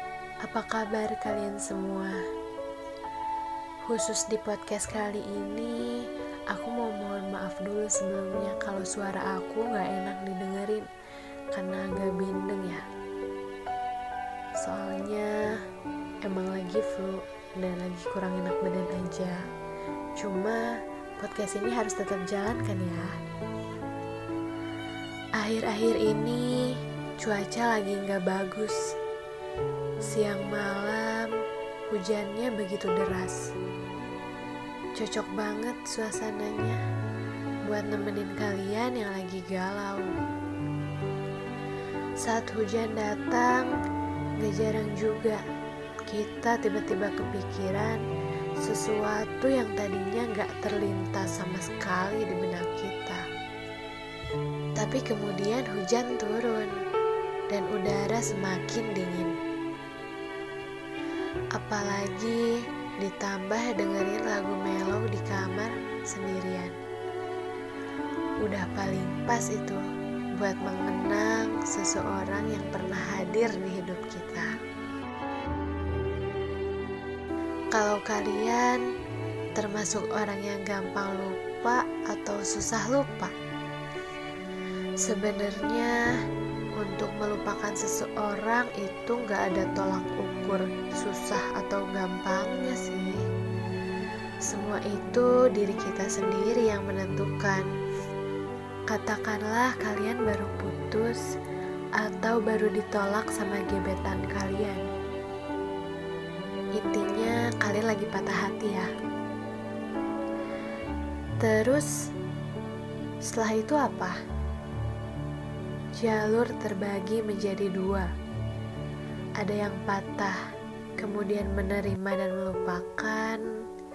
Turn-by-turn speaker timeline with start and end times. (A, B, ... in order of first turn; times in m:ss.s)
0:00.4-0:02.2 A
0:03.9-0:10.9 A
0:11.5-0:12.8 A
0:14.6-0:15.6 A
0:16.2-0:19.4 A
0:20.2-0:20.6 A
0:21.2-0:23.1 A
0:25.4-0:28.8 A
0:30.1-0:31.3 A
0:31.9-0:33.4 A
0:35.0-0:36.8 A
0:37.7-0:40.1 A
0:42.2-0:43.7 A
0:44.4-0:45.4 A
0:46.1-0:48.0 A
0:48.6-0:53.2 A
0:54.8-0:56.7 A
0:57.5-0:59.3 A
1:01.5-1:06.8 A
1:08.4-1:09.8 A
1:10.4-1:14.5 A
1:17.7-1:18.8 A
1:19.6-1:23.3 A
1:25.0-1:25.9 A
1:26.8-1:33.2 A
1:34.5-1:37.7 A
1:38.9-1:41.2 A
1:42.0-1:44.8 A
1:46.8-1:48.9 A
1:51.4-1:51.9 A
1:53.3-1:54.2 A
1:56.0-1:58.1 A
1:59.4-2:00.4 A
2:01.0-2:03.4 A